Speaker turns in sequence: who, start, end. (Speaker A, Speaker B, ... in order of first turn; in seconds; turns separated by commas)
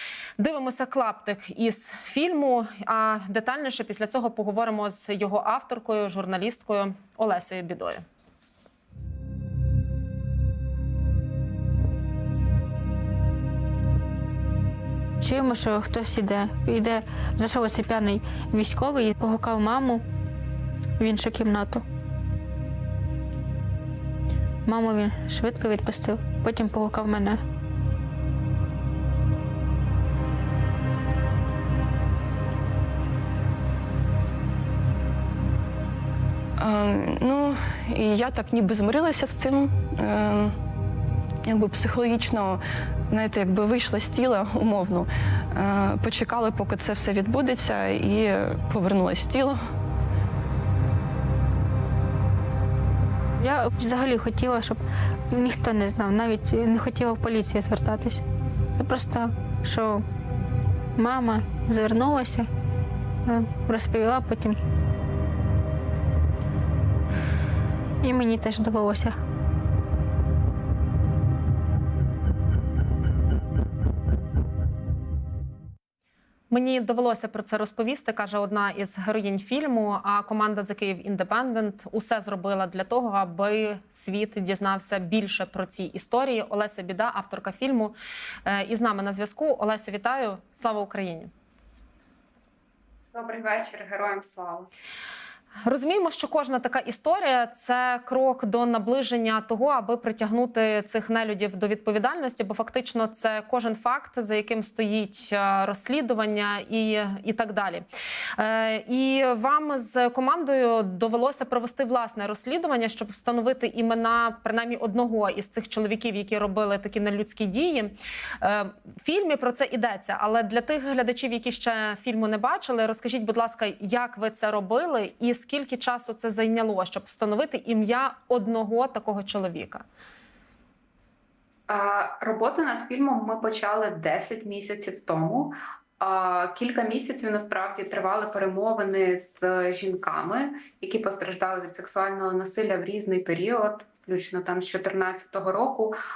Speaker A: 0.4-8.1, Speaker B: 15.2-20.0, Speaker B: 21.0-21.8, Speaker B: 24.7-27.4, Speaker C: 36.6-40.6, Speaker C: 41.5-49.6, Speaker B: 53.4-54.8, Speaker B: 55.3-58.2, Speaker B: 58.8-60.0, Speaker B: 61.0-62.5, Speaker B: 63.3-64.6, Speaker B: 68.0-69.2, Speaker A: 76.5-88.0, Speaker A: 88.5-91.3, Speaker D: 93.1-94.7, Speaker A: 95.7-107.8, Speaker A: 108.4-129.8, Speaker D: 131.7-146.0